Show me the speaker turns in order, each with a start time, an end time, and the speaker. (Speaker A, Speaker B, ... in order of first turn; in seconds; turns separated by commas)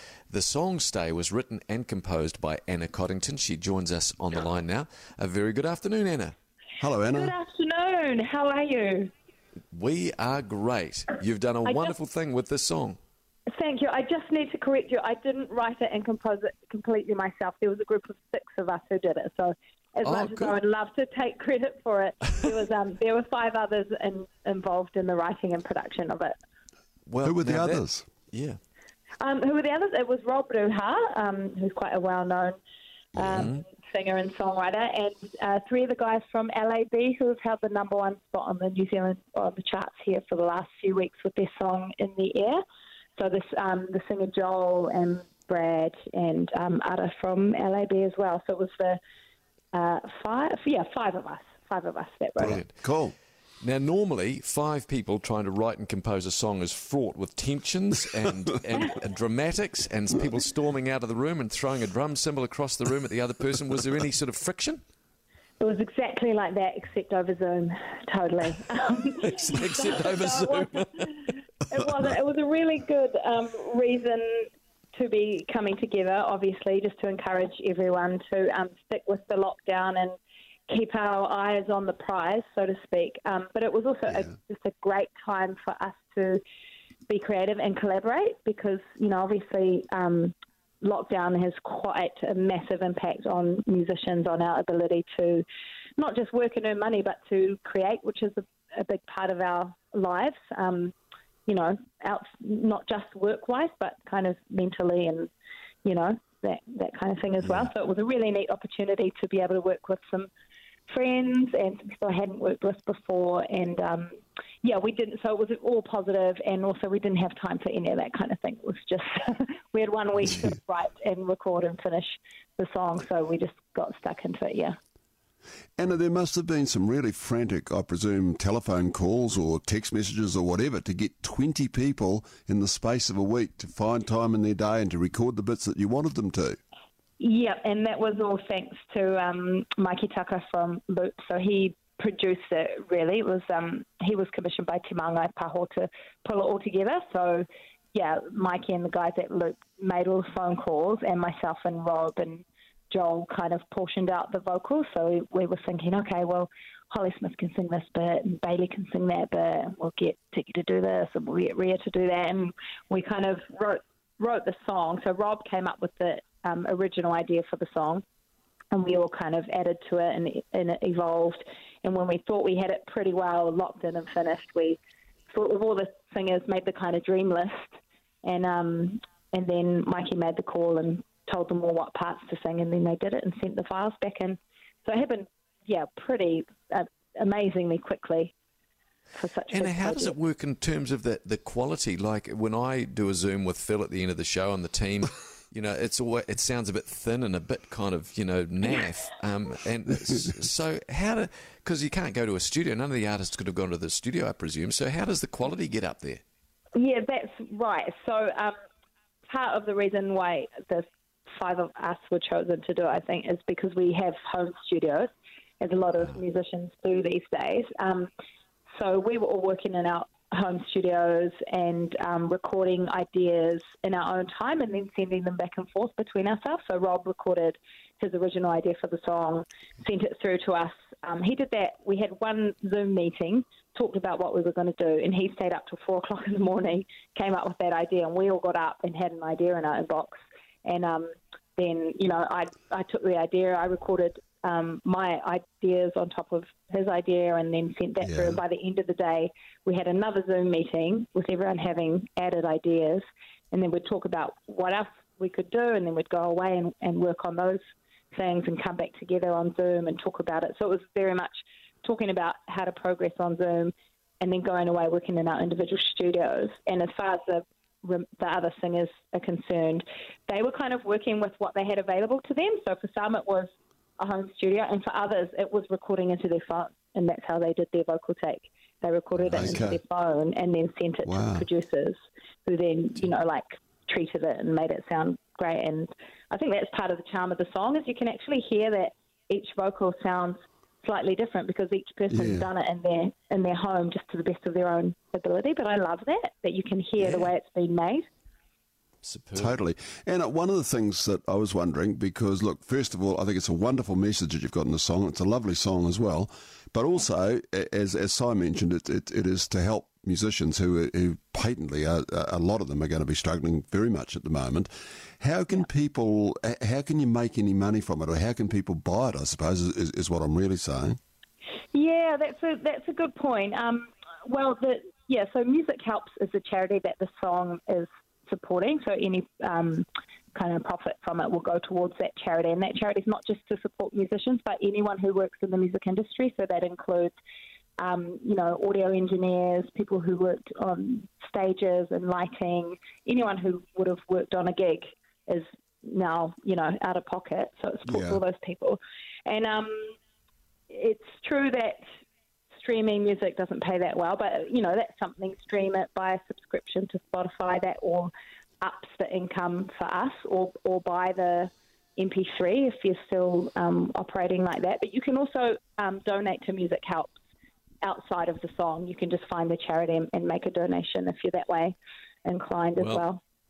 Speaker A: 0.3-6.3, Speaker B: 6.8-7.3, Speaker C: 7.1-9.1, Speaker A: 9.7-13.0, Speaker C: 11.7-11.9, Speaker C: 13.5-26.4, Speaker A: 20.0-20.6, Speaker A: 27.1-28.6, Speaker B: 27.2-28.1, Speaker C: 29.2-32.6, Speaker C: 33.2-42.6, Speaker C: 43.2-49.0, Speaker C: 49.7-52.6, Speaker B: 52.4-53.1, Speaker A: 52.4-52.7, Speaker A: 53.6-64.8, Speaker C: 65.6-71.2, Speaker A: 69.3-71.2, Speaker C: 71.7-80.2, Speaker C: 80.7-86.4, Speaker C: 87.1-95.5, Speaker C: 96.0-100.9, Speaker C: 101.5-105.3, Speaker C: 105.8-110.3, Speaker C: 110.9-124.8, Speaker B: 125.8-136.6, Speaker C: 137.2-168.0, Speaker C: 168.7-174.8, Speaker C: 175.3-188.3, Speaker C: 189.2-190.2, Speaker A: 189.5-206.2, Speaker C: 206.8-208.6, Speaker C: 209.3-218.1, Speaker C: 218.7-298.1, Speaker B: 248.0-248.4, Speaker A: 279.2-279.6, Speaker B: 279.3-279.8, Speaker B: 281.1-281.5, Speaker B: 292.1-292.5, Speaker A: 297.0-297.3, Speaker A: 299.0-299.6, Speaker B: 299.4-314.7, Speaker B: 315.2-321.0, Speaker C: 321.7-337.2, Speaker C: 337.8-349.9, Speaker B: 347.9-348.2, Speaker C: 350.7-351.8, Speaker C: 352.6-367.1, Speaker C: 367.8-373.2, Speaker A: 372.8-373.0